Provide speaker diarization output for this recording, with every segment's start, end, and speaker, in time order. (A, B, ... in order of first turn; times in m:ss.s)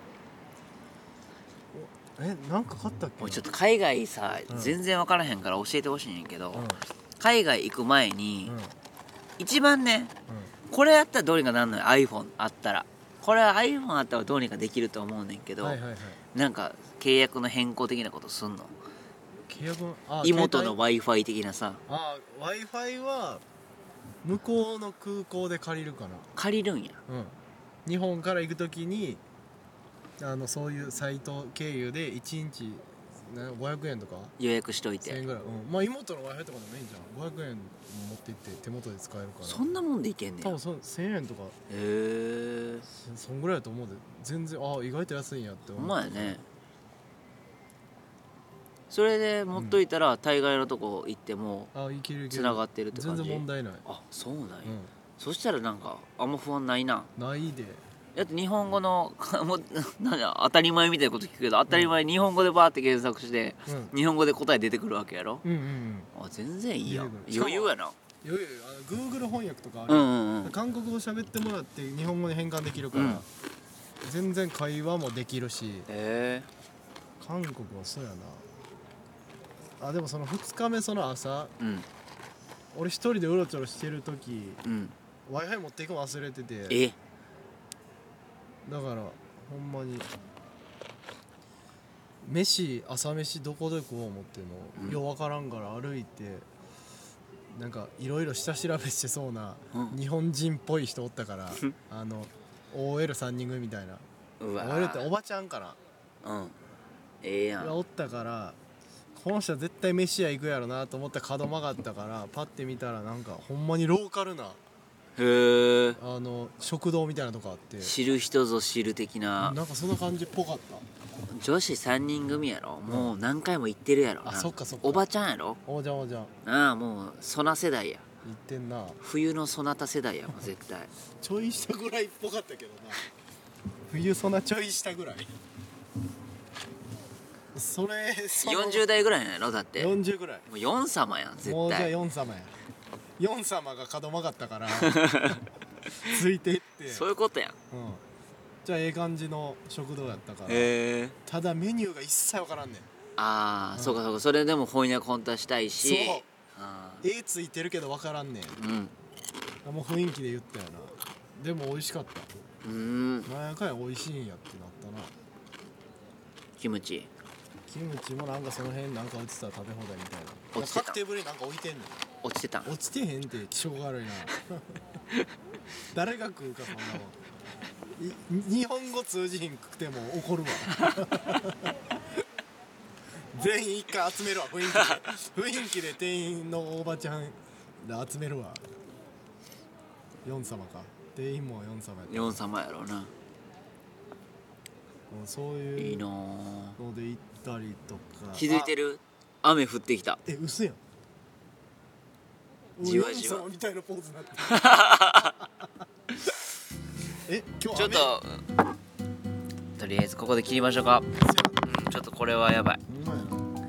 0:01.7-0:03.4 A
0:03.2-0:06.7 B
0:04.5-0:04.8 A
0:06.5-0:06.8 A
0:07.2-0:08.6 B
0:08.4-0:08.7 A
0:09.4-0:10.1 B
0:10.7-0:15.8 B
0:15.6-0:16.2 A
0:16.3-0:18.7 B
0:19.5-0:20.8 A
0:20.2-0:21.8 B
0:21.9-0:23.4 A
0:24.2-0:26.3 A
0:26.4-0:27.0 B
0:27.1-0:29.2 A
0:30.2-0:34.3 A
0:34.4-0:35.2 B
0:35.0-0:39.7 A
0:39.4-0:40.6 B
0:40.4-0:41.6 A
0:41.7-0:42.9 B
0:42.9-0:46.4 A
0:45.8-0:46.4 B
0:48.9-0:51.7 B
0:51.7-0:53.8 A
0:52.3-0:57.1 B
0:54.6-0:54.9 A
0:57.2-0:57.8 A
0:58.1-1:05.4 B
1:01.7-1:02.0 A
1:03.6-1:03.9 A
1:05.4-1:06.1 A
1:06.1-1:08.0 B
1:06.8-1:13.2 A
1:09.9-1:10.5 B
1:12.9-1:13.2 B
1:14.0-1:15.9 A
1:15.9-1:16.5 B
1:17.2-1:18.4 A
1:19.8-1:21.5 A
1:21.6-1:21.8 B
1:22.7-1:24.6 A
1:24.6-1:24.9 B
1:25.3-1:26.8 A
1:26.7-1:27.0 B
1:28.6-1:30.1 A
1:32.2-1:36.4 A
1:37.5-1:44.0 A
1:44.4-1:45.1 B
1:44.6-1:45.8 A
1:46.2-1:46.5 B
1:47.2-1:47.8 B
1:47.6-1:48.6 A
1:49.1-1:54.6 A
1:55.2-1:56.0 B
1:56.0-1:57.9 A
1:57.8-1:59.6 B
1:59.4-2:00.8 A
2:01.3-2:05.6 B
2:02.9-2:03.1 A
2:04.2-2:05.0 A
2:05.6-2:06.3 A
2:06.4-2:08.0 B
2:08.2-2:09.0 A
2:09.0-2:10.9 B
2:11.2-2:13.0 A
2:13.9-2:15.3 A
2:17.5-2:18.9 A
2:18.3-2:20.0 B
2:19.8-2:20.5 A
2:20.5-2:21.9 B
2:21.4-2:22.5 A
2:23.2-2:25.4 A
2:24.7-2:25.4 B
2:26.0-2:27.0 A
2:26.9-2:27.6 B
2:27.7-2:28.0 A
2:28.6-2:30.7 A
2:30.5-2:31.1 B
2:31.2-2:32.9 A
2:33.2-2:37.0 B
2:33.7-2:34.0 A
2:35.8-2:36.3 A
2:37.0-2:38.6 A
2:38.6-2:38.9 B
2:39.6-2:42.3 A
2:42.6-2:43.3 B
2:43.2-2:45.1 A
2:46.6-2:47.1 B
2:47.7-2:51.9 A
2:50.5-2:51.0 B
2:52.2-2:52.7 B
2:52.6-2:54.6 A
2:55.9-2:57.2 A
2:58.0-3:02.2 A
3:00.8-3:01.0 B
3:03.3-3:08.6 A
3:10.2-3:12.4 A
3:12.1-3:13.1 B
3:15.1-3:16.0 A
3:15.8-3:16.8 B
3:16.8-3:18.7 A
3:18.3-3:20.2 B
3:20.2-3:20.8 A
3:22.8-3:25.6 A
3:22.8-3:23.4 B
3:24.4-3:25.4 B
3:27.2-3:28.2 A
3:27.7-3:28.4 B
3:29.8-3:32.8 B
3:31.2-3:31.7 A
3:32.8-3:33.4 A